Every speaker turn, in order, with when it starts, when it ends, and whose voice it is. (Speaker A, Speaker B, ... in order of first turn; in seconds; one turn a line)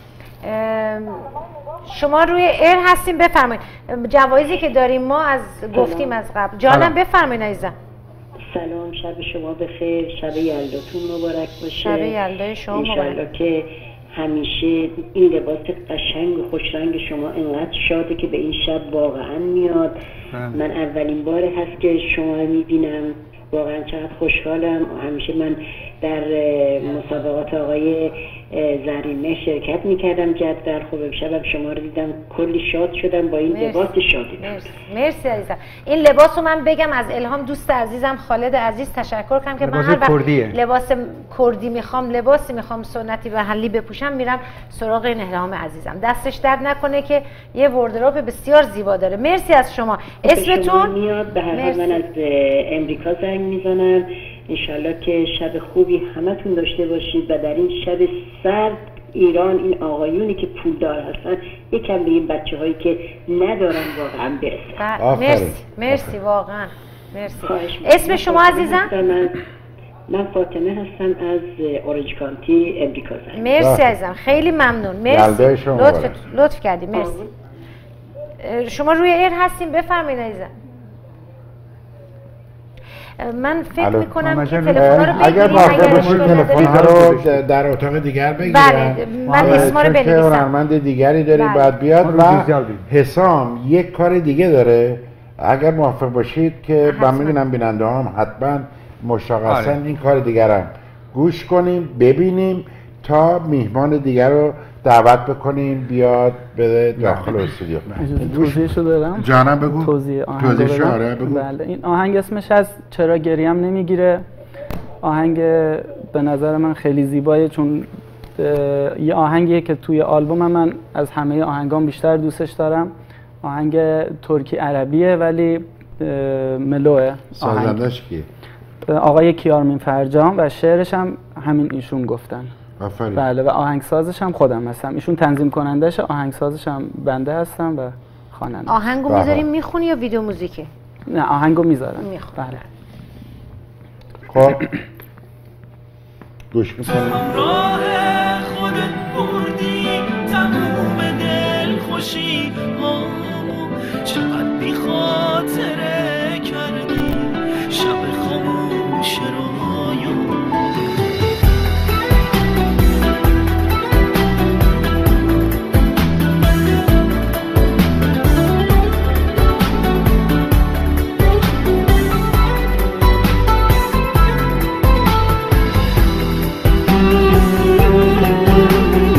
Speaker A: 0.4-1.2
Speaker A: 1.9-7.7
Speaker B: 5.7-6.2
Speaker C: 6.7-6.9
Speaker B: 8.5-19.9
Speaker A: 11.8-13.2
Speaker C: 20.3-20.6
Speaker B: 20.5-34.7
Speaker A: 33.5-50.9
Speaker C: 39.6-40.6
Speaker B: 50.2-64.8
Speaker A: 51.5-52.0
Speaker A: 64.8-68.9
Speaker D: 65.0-66.1
Speaker B: 67.4-69.4
Speaker B: 70.1-73.5
Speaker A: 73.3-77.2
Speaker D: 73.5-74.0
Speaker D: 75.1-76.2
Speaker B: 76.9-77.3
Speaker A: 78.4-80.5
Speaker A: 83.2-87.0
Speaker D: 83.8-84.1
Speaker C: 84.2-87.4
Speaker D: 84.7-111.5
Speaker A: 88.4-90.5
Speaker C: 89.3-89.8
Speaker A: 91.3-91.7
Speaker C: 92.0-92.8
Speaker A: 96.9-97.4
Speaker C: 99.5-99.8
Speaker C: 107.0-107.9
Speaker E: 108.0-114.2
Speaker E: 115.0-122.9
Speaker E: 123.4-127.8
Speaker D: 127.3-128.3
Speaker E: 128.9-132.5
Speaker D: 132.8-133.2
Speaker E: 133.2-138.8
Speaker A: 138.7-140.7
Speaker D: 139.1-139.5
Speaker E: 141.1-142.6
Speaker A: 142.0-142.6
Speaker D: 144.3-144.7
Speaker D: 146.5-147.3
Speaker F: 146.8-160.5